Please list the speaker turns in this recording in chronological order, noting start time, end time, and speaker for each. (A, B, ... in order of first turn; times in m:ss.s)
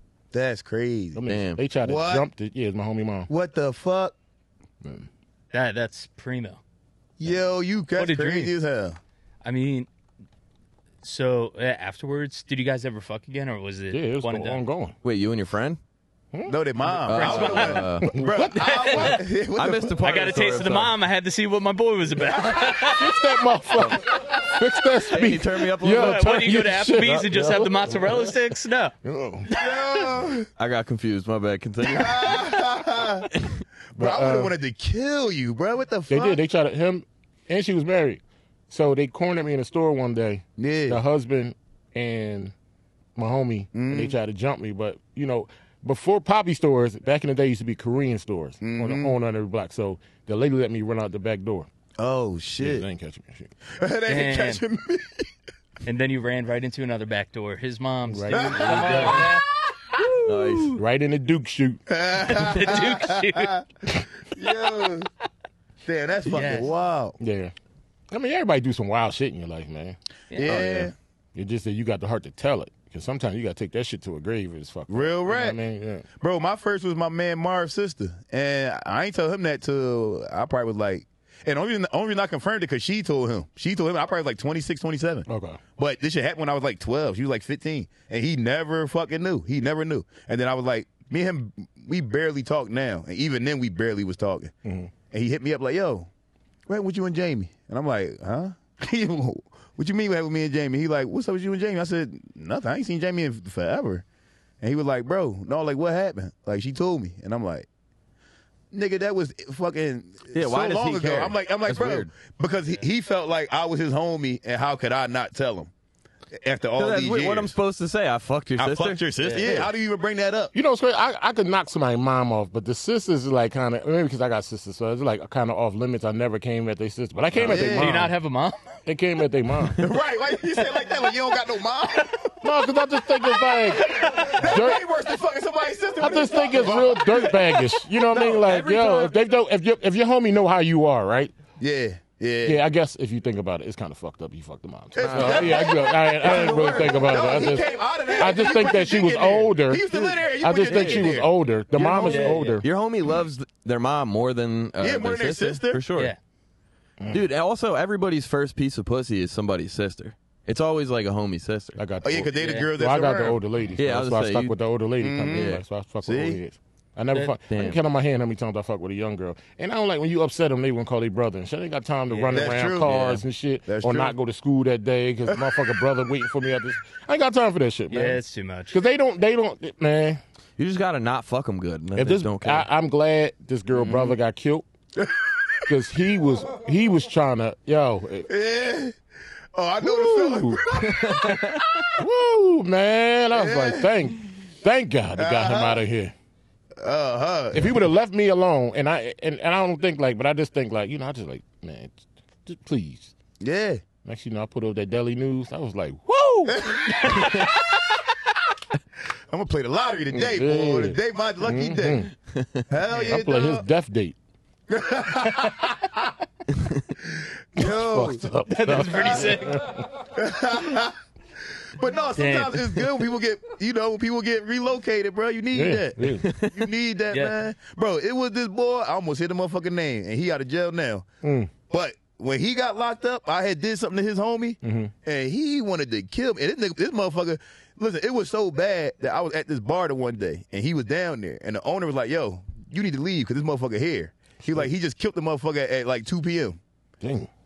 0:00.3-0:01.2 A
0:01.2-0:03.3 B
0:01.3-0:01.6 C
0:01.8-0:02.3 A
0:03.3-0:04.2 A
0:04.8-0:05.1 B
0:05.5-0:06.6 D
0:07.2-0:09.0 A
0:08.0-0:08.6 D
0:09.4-0:09.9 D
0:11.0-0:14.6 D
0:13.9-0:15.0 B
0:15.0-0:15.8 C
0:16.3-0:17.1 B
0:16.5-0:20.0 A
0:17.1-0:18.1 C
0:17.1-0:17.9 D
0:18.0-0:19.2 B
0:18.6-0:19.2 D
0:19.6-0:20.9 C
0:20.0-0:23.3 D
0:22.3-0:22.9 A
0:22.9-0:28.3 B
0:23.9-0:24.6 D
0:25.1-0:26.5 C
0:25.9-0:28.9 D
0:27.0-0:28.1 C
0:29.0-0:29.5 B
0:29.5-0:30.1 D
0:29.5-0:30.5 A
0:30.6-0:32.6 C
0:31.8-0:33.3 A
0:33.4-0:33.6 C
0:34.0-0:34.6 B
0:34.0-0:36.4 A
0:36.1-0:42.5 B
0:40.6-0:41.0 A
0:43.2-0:51.7 B
0:43.7-0:44.2 A
0:48.6-0:49.2 A
0:52.0-0:52.9 A
0:52.6-0:53.5 B
0:53.7-0:55.3 A
0:54.1-0:54.6 D
0:55.8-0:59.5 D
0:58.1-0:59.2 B
0:58.3-1:00.1 A
0:58.6-0:59.3 C
1:00.0-1:00.3 D
1:00.2-1:00.8 C
1:00.7-1:01.8 B
1:01.9-1:03.6 A
1:02.2-1:03.6 D
1:04.3-1:05.1 A
1:05.8-1:07.2 A
1:06.3-1:06.7 D
1:07.2-1:07.5 B
1:08.1-1:10.0 B
1:10.3-1:10.6 D
1:10.3-1:10.9 A
1:10.4-1:10.9 C
1:11.4-1:16.1 B
1:14.9-1:15.6 A
1:16.2-1:25.3 A
1:25.3-1:25.6 B
1:25.8-1:34.5 A
1:34.6-1:34.9 B
1:35.1-1:36.1 A
1:36.7-1:44.0 A
1:44.6-1:47.7 A
1:48.7-1:55.7 A
1:50.3-1:52.1 C
1:56.3-1:57.6 A
1:56.8-1:59.7 C
1:58.6-2:00.5 A
1:59.2-1:59.5 D
2:00.5-2:08.2 B
2:07.3-2:07.6 C
2:07.4-2:08.0 A
2:07.6-2:08.8 D
2:08.8-2:09.8 B
2:09.8-2:12.3 A
2:12.4-2:14.8 B
2:13.3-2:17.7 A
2:13.8-2:14.4 D
2:16.0-2:21.3 B
2:18.2-2:19.1 C
2:21.6-2:22.6 A
2:22.4-2:32.7 B
2:24.9-2:32.4 A
2:25.2-2:25.4 C
2:30.7-2:31.0 C
2:32.0-2:32.6 D
2:32.6-2:36.1 C
2:34.8-2:35.8 A
2:37.1-2:41.8 C
2:41.8-3:00.2 B
2:42.0-2:43.4 A
2:42.4-2:42.7 D
2:43.8-2:44.6 C
2:45.0-2:46.4 A
2:45.3-2:45.6 C
2:47.5-2:47.8 C
2:52.1-2:52.6 D
2:52.3-2:53.0 A
2:52.8-2:53.2 C
2:53.7-2:54.2 A
2:55.3-2:55.7 A
2:57.9-2:58.8 D
3:00.6-3:02.7 C
3:02.0-3:04.6 B
3:05.0-3:05.7 A
3:05.7-3:08.3 B
3:08.3-3:09.0 A
3:09.5-3:11.8 A
3:09.8-3:10.6 B
3:10.9-3:11.7 C
3:12.0-3:16.1 B
3:13.3-3:13.9 A
3:15.2-3:15.9 A
3:16.8-3:17.8 A
3:17.5-3:23.1 B
3:23.4-3:23.8 A
3:24.0-3:27.3 B
3:26.5-3:28.1 A
3:29.3-3:32.1 A
3:30.1-3:32.1 B
3:32.4-3:32.6 C
3:32.7-3:33.6 A
3:32.9-3:33.2 D
3:33.1-3:34.2 B
3:34.7-3:36.1 A
3:35.4-3:35.7 D
3:37.0-3:38.3 A
3:37.6-3:39.9 B
3:38.5-3:39.7 D
3:38.9-3:41.0 A
3:41.6-3:51.1 A
3:42.2-3:42.8 D
3:45.5-3:46.3 B
3:46.2-3:46.6 C
3:47.1-3:47.4 D
3:51.2-3:51.5 B
3:51.7-4:06.6 A
3:54.6-3:54.9 B
4:04.4-4:04.7 B
4:07.0-4:07.3 B